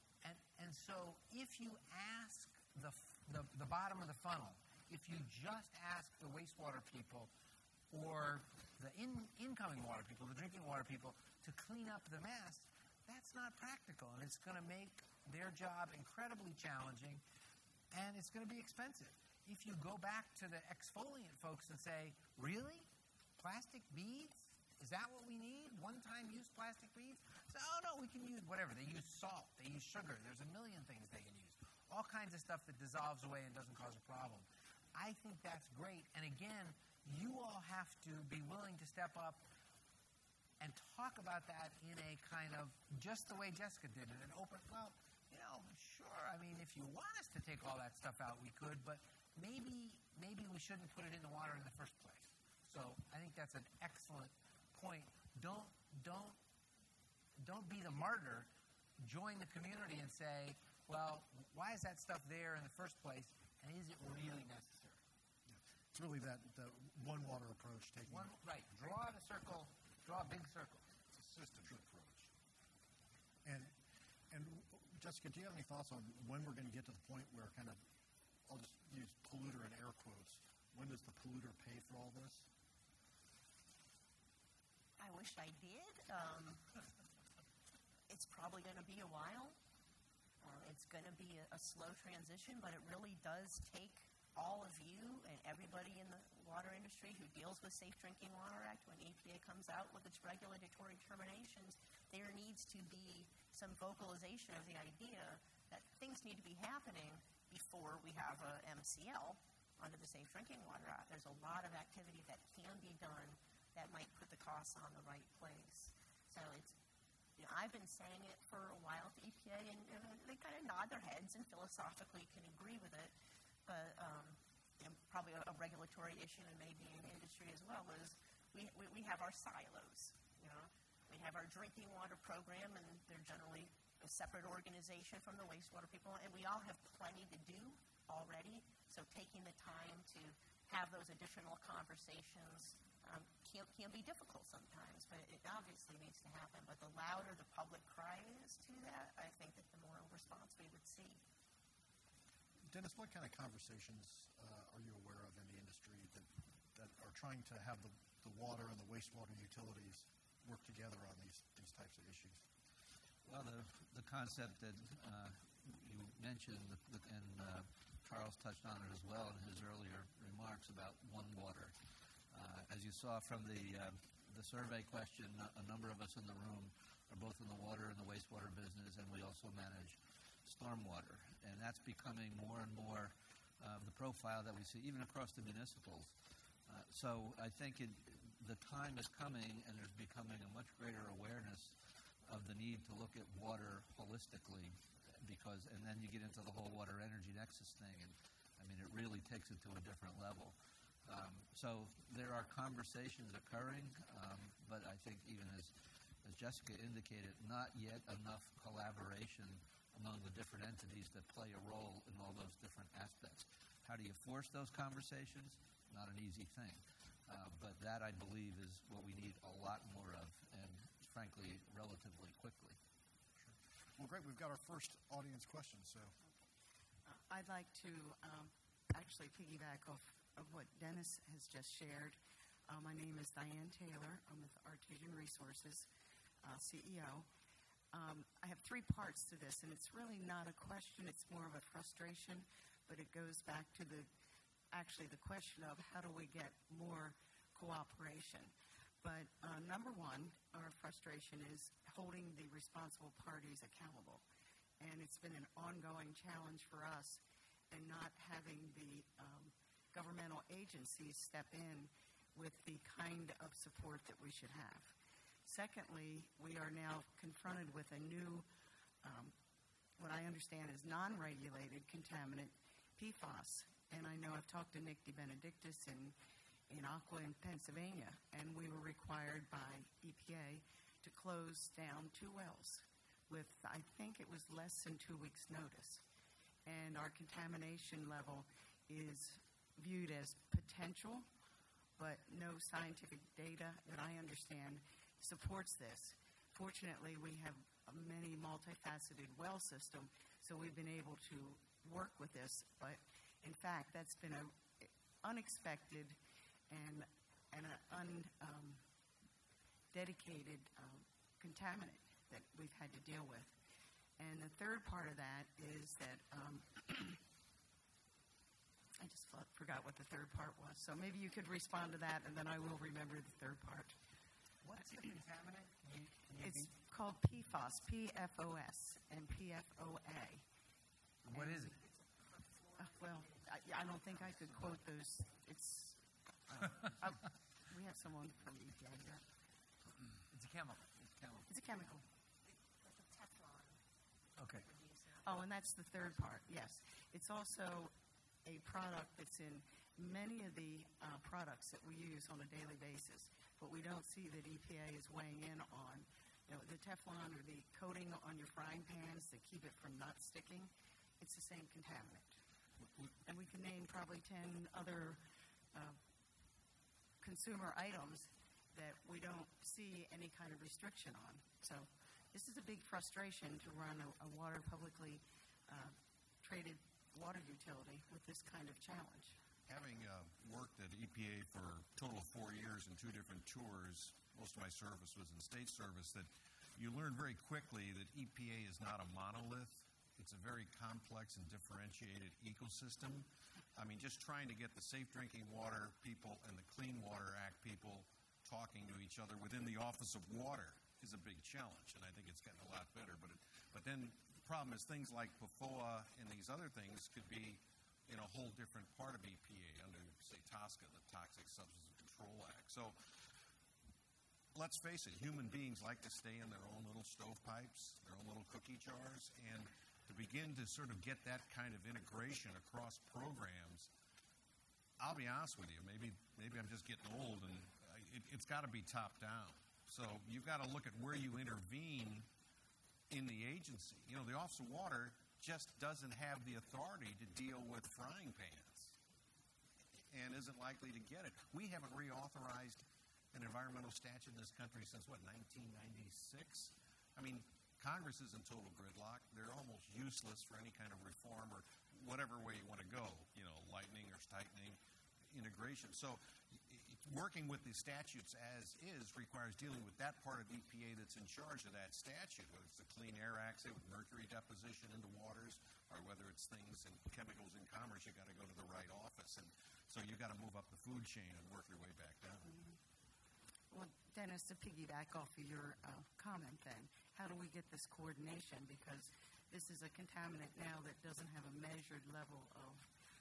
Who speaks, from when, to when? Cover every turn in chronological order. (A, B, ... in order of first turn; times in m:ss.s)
0:00.2-0:07.3 A
0:07.9-0:17.2 A
0:17.9-0:22.9 A
0:23.4-0:39.4 A
0:40.6-0:56.4 A
0:57.4-1:05.0 A
1:05.5-1:08.3 B
1:08.1-1:10.8 A
1:11.1-1:12.3 C
1:13.4-1:13.7 B
1:14.3-1:17.8 B
1:18.5-1:22.5 B
1:25.0-1:26.6 D
1:28.1-1:29.6 D
1:30.4-1:56.7 D
1:57.4-2:03.1 D
2:03.6-2:31.2 D
2:32.7-2:42.4 B
2:43.2-2:51.7 E
2:52.3-3:06.1 E
3:06.7-3:25.7 E
3:26.2-3:42.8 E
3:43.4-3:46.1 B
3:47.1-3:55.9 F
3:56.4-3:57.3 F
3:57.9-4:04.1 F
4:04.7-4:14.2 F
4:14.8-4:24.9 F
4:25.4-4:28.5 F
4:29.0-4:29.3 F
4:30.0-4:36.2 F
4:36.7-4:46.0 F
4:46.6-4:51.3 F
4:52.0-5:06.2 F
5:06.7-5:08.8 F
5:09.9-5:13.6 F
5:14.2-5:17.2 F
5:19.0-5:24.0 F
5:24.6-5:26.7 A
5:26.4-5:30.4 F
5:31.2-5:31.8 A
5:31.3-5:31.7 F
5:32.8-5:39.2 F
5:40.3-5:41.4 A
5:41.5-5:42.0 F
5:42.8-5:43.8 D
5:44.4-5:44.6 A
5:44.6-5:45.4 D
5:45.2-5:47.9 F
5:48.4-6:02.4 F
6:03.3-6:05.2 F
6:05.7-6:06.0 F
6:07.2-6:19.4 F
6:19.7-6:53.0 C
6:54.5-7:03.9 C
7:05.0-7:12.3 C
7:13.1-7:19.0 C
7:20.1-7:52.6 C
7:53.7-8:02.9 F